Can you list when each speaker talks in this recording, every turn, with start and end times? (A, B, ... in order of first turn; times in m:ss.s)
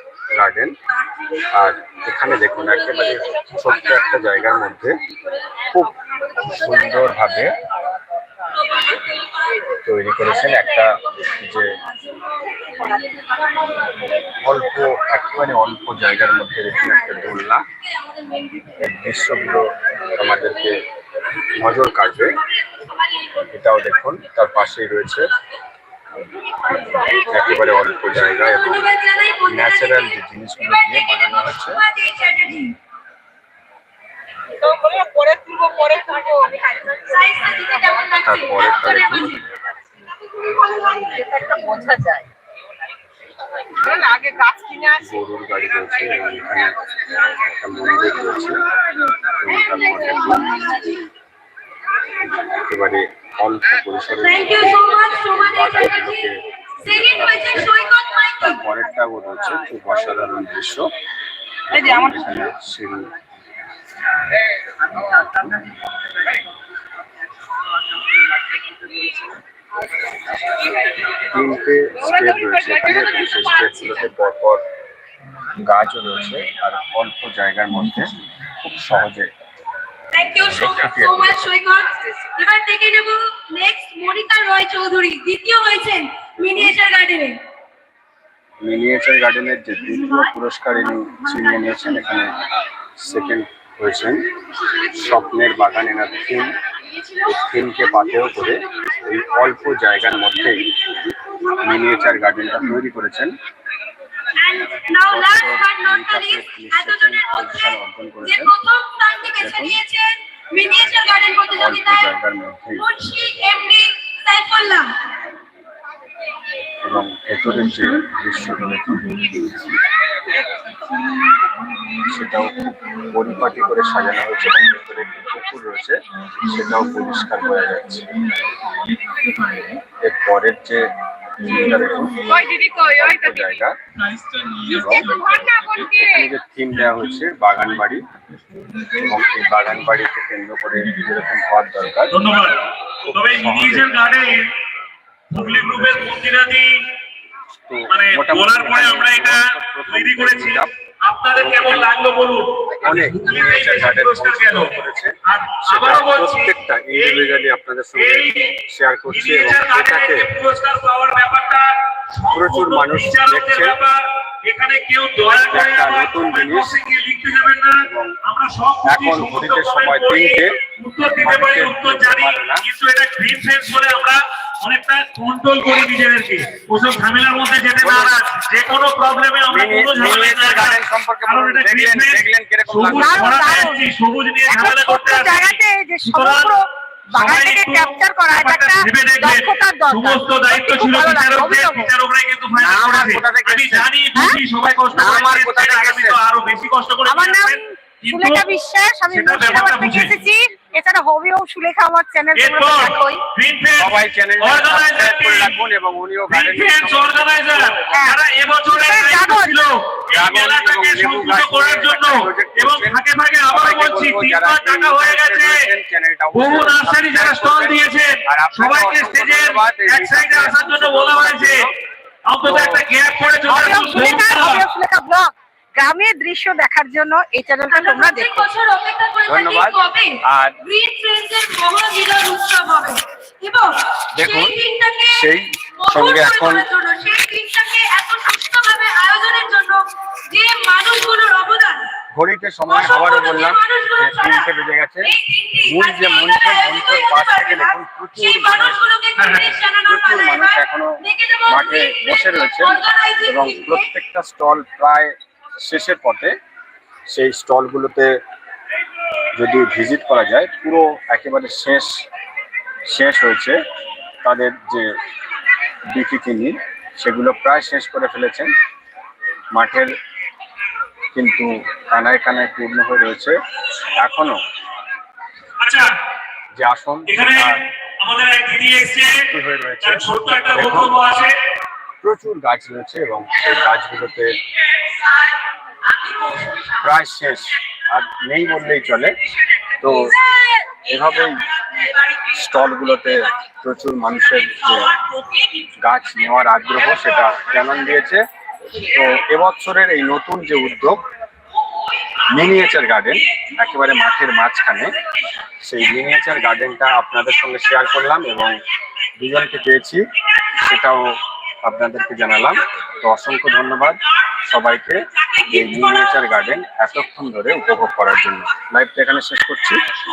0:00.4-0:00.8 A
0:00.9-0:04.9 B
0:01.5-0:05.0 A
0:06.3-0:07.4 B
0:06.5-0:07.5 A
0:08.5-0:14.1 B
0:09.8-0:11.8 A
0:14.2-0:17.6 A
0:14.8-0:15.2 B
0:16.8-0:17.4 B
0:18.0-0:18.9 B
0:18.8-0:20.8 A
0:21.5-0:22.4 A
0:22.0-0:22.4 B
0:23.5-0:25.3 A
0:27.2-0:28.9 A
0:28.1-0:32.8 B
0:29.5-0:31.8 A
0:34.6-0:37.1 C
0:37.1-0:39.4 B
0:38.2-0:39.4 A
0:40.7-0:42.2 C
0:43.8-0:44.8 C
0:45.0-0:46.8 A
0:47.3-0:48.6 A
0:49.4-0:50.6 A
0:50.1-0:51.1 B
0:52.3-0:57.8 A
0:54.1-0:58.6 B
0:58.4-1:00.9 A
1:01.7-1:03.1 A
1:05.0-1:05.7 A
1:11.1-1:14.6 A
1:15.6-1:19.3 A
1:20.1-1:27.4 B
1:20.4-1:21.6 A
1:26.4-1:26.8 A
1:28.6-1:32.4 A
1:29.5-1:32.3 B
1:33.0-1:34.3 A
1:34.6-1:35.6 B
1:34.9-1:36.5 A
1:37.1-1:42.4 B
1:37.2-1:40.6 A
1:41.6-1:43.4 A
1:44.4-1:52.2 B
1:45.0-1:48.5 A
1:49.4-1:49.8 A
1:51.5-1:52.9 A
1:52.7-1:54.9 B
1:56.8-1:59.2 A
2:02.0-2:08.1 A
2:10.0-2:13.8 A
2:14.6-2:18.1 A
2:15.4-2:15.8 C
2:18.9-2:22.2 A
2:22.1-2:24.4 D
2:23.0-2:23.9 A
2:25.3-2:26.8 D
2:25.4-2:26.0 A
2:27.7-2:30.7 A
2:27.9-2:34.8 D
2:31.4-2:31.9 A
2:32.8-2:35.1 A
2:35.3-2:38.6 D
2:35.7-2:40.3 A
2:39.1-3:06.6 D
2:42.3-2:43.8 A
2:45.5-2:46.8 A
2:47.8-2:48.2 A
2:48.8-2:50.5 A
2:51.2-2:52.7 A
2:57.8-2:58.2 A
2:59.5-3:03.6 A
3:02.9-3:03.9 E
3:04.4-3:11.9 E
3:07.1-3:18.5 D
3:12.6-3:13.9 A
3:14.1-3:14.4 E
3:14.9-3:16.2 A
3:17.0-3:23.2 E
3:19.1-3:20.2 D
3:22.3-3:25.6 D
3:23.8-3:28.1 A
3:26.3-3:35.7 D
3:27.9-3:29.6 E
3:30.1-3:41.7 A
3:36.3-3:41.7 D
3:42.3-3:44.6 D
3:42.4-3:42.8 A
3:43.4-3:48.5 E
3:47.7-4:01.8 B
3:49.3-3:49.8 A
3:50.3-3:50.6 A
3:54.2-3:54.6 A
3:55.1-3:56.7 A
4:02.1-4:05.1 A
4:02.7-4:04.5 B
4:05.0-4:13.9 B
4:05.6-4:08.8 A
4:09.2-4:09.6 D
4:09.8-4:16.3 A
4:17.1-4:18.1 A
4:19.4-4:22.0 A
4:22.9-4:23.6 A
4:24.2-4:24.9 A
4:25.9-4:28.5 A
4:29.5-4:29.9 A
4:31.1-4:33.4 A
4:34.0-4:34.4 A
4:35.6-4:35.9 D
4:36.6-4:37.6 A
4:37.1-4:39.2 D
4:39.3-4:41.0 A
4:39.8-4:41.4 D
4:42.0-4:44.4 A
4:46.3-4:46.7 C
4:46.8-4:49.2 A
4:49.8-4:50.2 A
4:49.8-4:50.8 C
4:50.9-4:51.4 A
4:52.3-4:54.9 A
4:55.0-4:55.3 C
4:55.8-4:58.2 A
4:56.9-4:57.4 C
4:58.8-5:01.0 A
5:02.3-5:05.0 A
5:05.6-5:08.6 A
5:09.2-5:10.0 A
5:10.6-5:19.8 A
5:15.3-5:16.2 C